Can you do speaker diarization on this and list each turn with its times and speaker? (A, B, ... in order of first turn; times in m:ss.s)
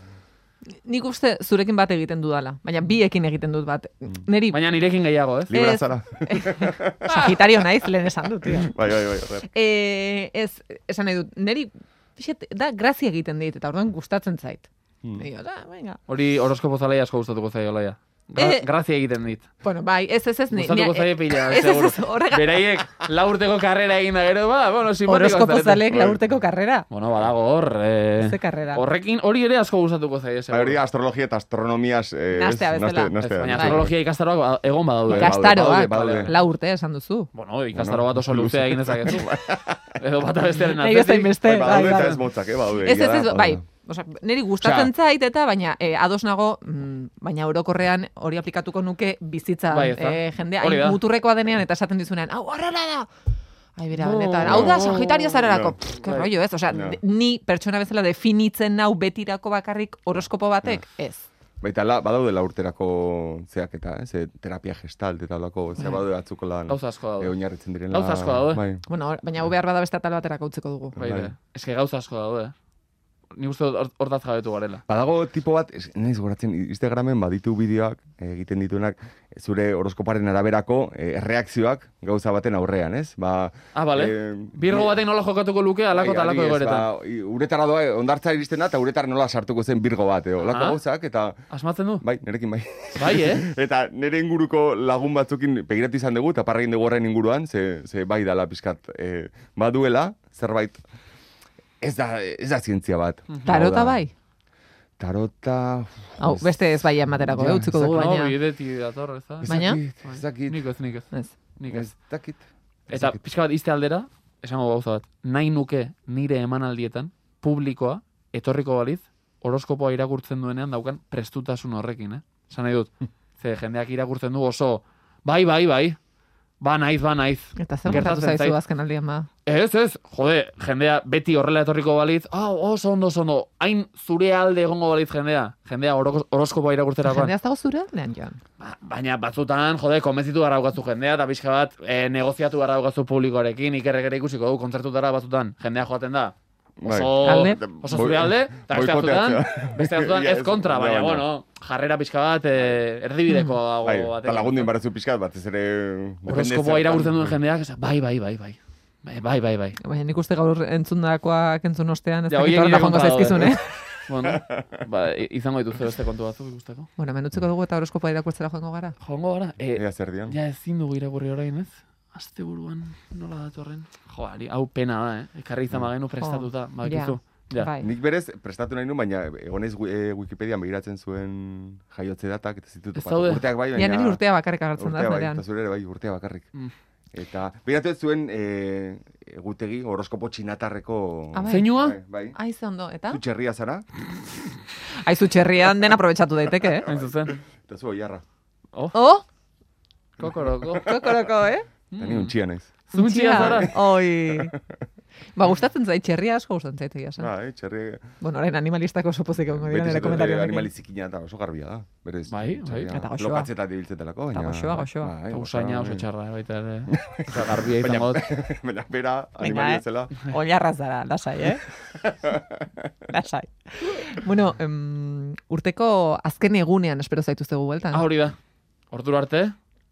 0:00.9-0:04.7 A
0:04.5-0:05.6 B
0:05.5-0:07.2 C
0:05.5-0:08.8 A
0:07.1-0:07.4 B
0:08.4-0:09.5 C
0:09.4-0:16.0 A
0:16.1-0:19.5 B
0:18.4-0:18.7 A
0:19.6-0:22.7 A
0:20.5-0:25.8 B
0:25.1-0:26.9 A
0:25.9-0:26.2 C
0:26.9-0:30.8 B
0:28.2-0:28.9 A
0:30.5-0:33.9 C
0:32.3-0:33.9 A
0:33.4-0:36.3 B
0:35.1-0:36.3 C
0:35.1-0:37.3 A
0:37.3-0:39.3 B
0:37.7-0:40.0 C
0:40.0-0:42.2 B
0:40.6-0:42.2 A
0:41.4-0:43.7 C
0:42.8-0:53.1 A
0:44.6-0:44.9 C
0:49.7-0:51.0 B
0:53.8-1:01.3 A
0:54.0-0:55.5 B
0:54.4-0:54.9 C
0:55.5-0:57.0 C
1:01.6-1:08.8 C
1:05.8-1:06.0 A
1:06.7-1:07.4 B
1:07.9-1:08.6 B
1:08.9-1:11.0 A
1:11.0-1:11.3 C
1:11.0-1:12.5 B
1:13.4-1:14.8 B
1:14.9-1:25.0 C
1:23.7-1:26.9 B
1:25.9-1:31.4 C
1:30.4-1:30.8 B
1:31.5-1:32.0 B
1:32.0-1:40.8 C
1:33.0-1:33.4 B
1:41.8-1:44.0 C
1:43.3-1:43.6 B
1:43.4-1:44.1 A
1:45.0-1:47.9 C
1:46.2-1:48.4 A
1:47.8-1:51.1 B
1:49.4-1:50.6 C
1:49.5-1:49.8 A
1:51.6-1:51.9 B
1:51.7-1:53.2 C
1:52.9-2:06.0 B
2:06.6-2:08.6 B
2:07.6-2:09.3 A
2:09.5-2:17.3 B
2:17.0-2:18.4 A
2:18.6-2:34.7 B
2:26.8-2:31.3 C
2:27.2-2:27.6 A
2:33.3-2:33.6 A
2:33.8-2:37.4 C
2:36.3-2:39.8 B
2:39.8-2:43.8 A
2:42.3-2:46.9 B
2:47.0-2:49.0 A
2:49.0-2:57.7 B
2:49.7-2:50.4 C
2:56.2-2:57.9 A
2:57.8-3:04.2 C
3:03.0-3:03.4 B
3:03.7-3:05.4 A
3:04.8-3:06.5 C
3:07.1-3:12.4 C
3:11.3-3:13.2 A
3:11.5-3:12.0 B
3:13.1-3:13.9 C
3:15.0-3:16.9 A
3:16.8-3:17.4 B
3:16.9-3:18.2 C
3:18.9-3:19.2 A
3:20.2-3:20.9 B
3:20.2-3:21.3 C
3:20.8-3:21.7 A
3:21.9-3:22.3 B
3:22.0-3:22.7 C
3:22.9-3:23.8 B
3:22.9-3:24.5 A
3:23.3-3:23.7 C
3:24.3-3:24.6 C
3:25.4-3:27.3 A
3:27.2-3:28.0 C
3:28.2-3:30.7 A
3:29.5-3:36.1 C
3:32.3-3:32.9 B
3:32.9-3:33.5 A
3:34.3-3:35.2 A
3:35.3-3:38.3 B
3:36.9-3:40.3 C
3:39.4-3:41.7 A
3:41.9-3:42.9 C
3:43.1-3:48.1 A
3:47.9-3:48.4 B
3:48.9-3:49.6 B